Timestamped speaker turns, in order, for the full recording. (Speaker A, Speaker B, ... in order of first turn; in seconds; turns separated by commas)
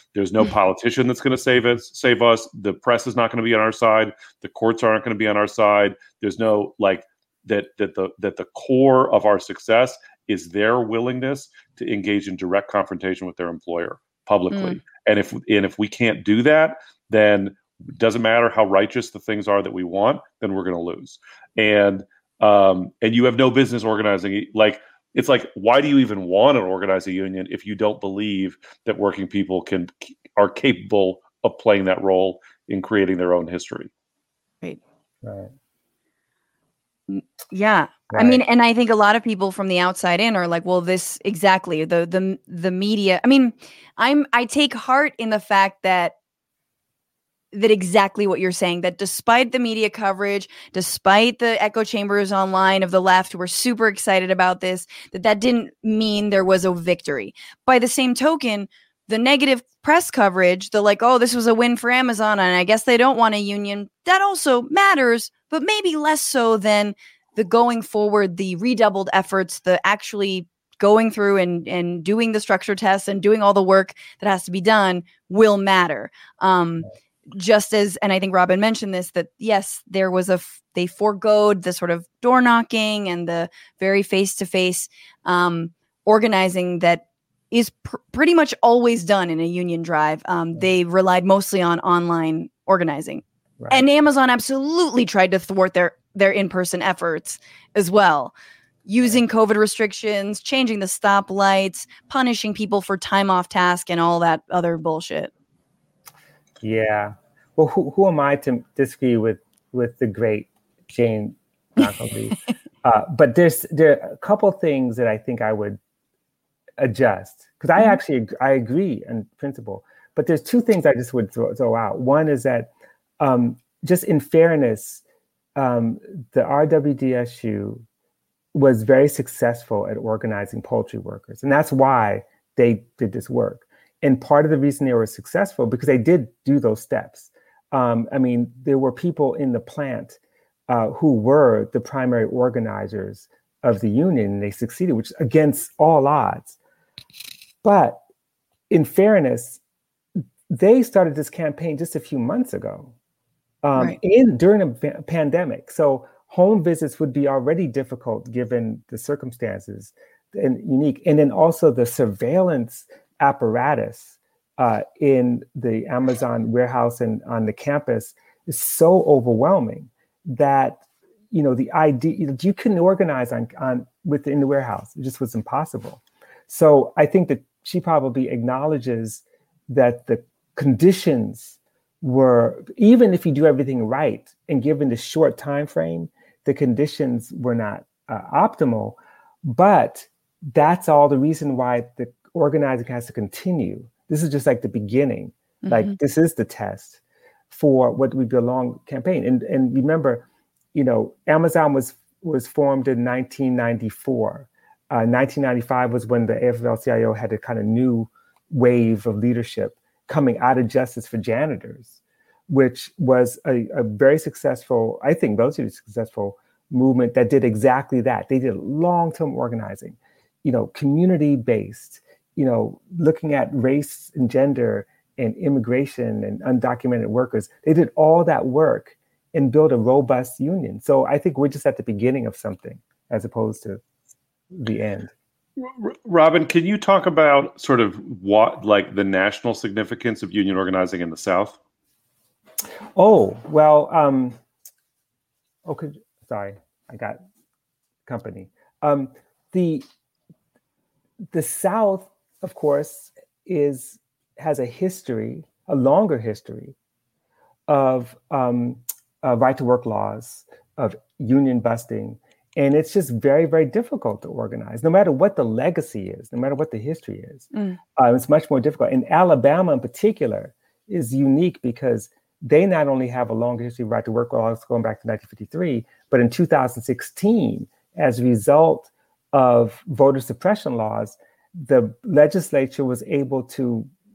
Speaker A: 0.1-33.9, Speaker B: 14.5-14.8, Speaker C: 35.2-35.5, Speaker B: 37.1-46.1, Speaker C: 38.1-38.4, Speaker B: 47.5-98.3, Speaker C: 93.6-93.8, Speaker B: 98.9-105.3, Speaker C: 106.6-115.8, Speaker C: 116.8-125.0, Speaker C: 125.6-127.8, Speaker C: 128.5-140.2, Speaker C: 140.7-146.6, Speaker C: 147.6-148.0, Speaker C: 148.7-149.6, Speaker C: 150.5-152.9, Speaker C: 153.6-233.8, Speaker B: 195.6-196.0, Speaker C: 234.5-235.1, Speaker A: 235.6-241.6, Speaker C: 243.0-244.4, Speaker C: 245.7-247.2, Speaker C: 248.1-249.8, Speaker C: 251.3-256.8, Speaker C: 257.7-283.9, Speaker B: 267.5-267.8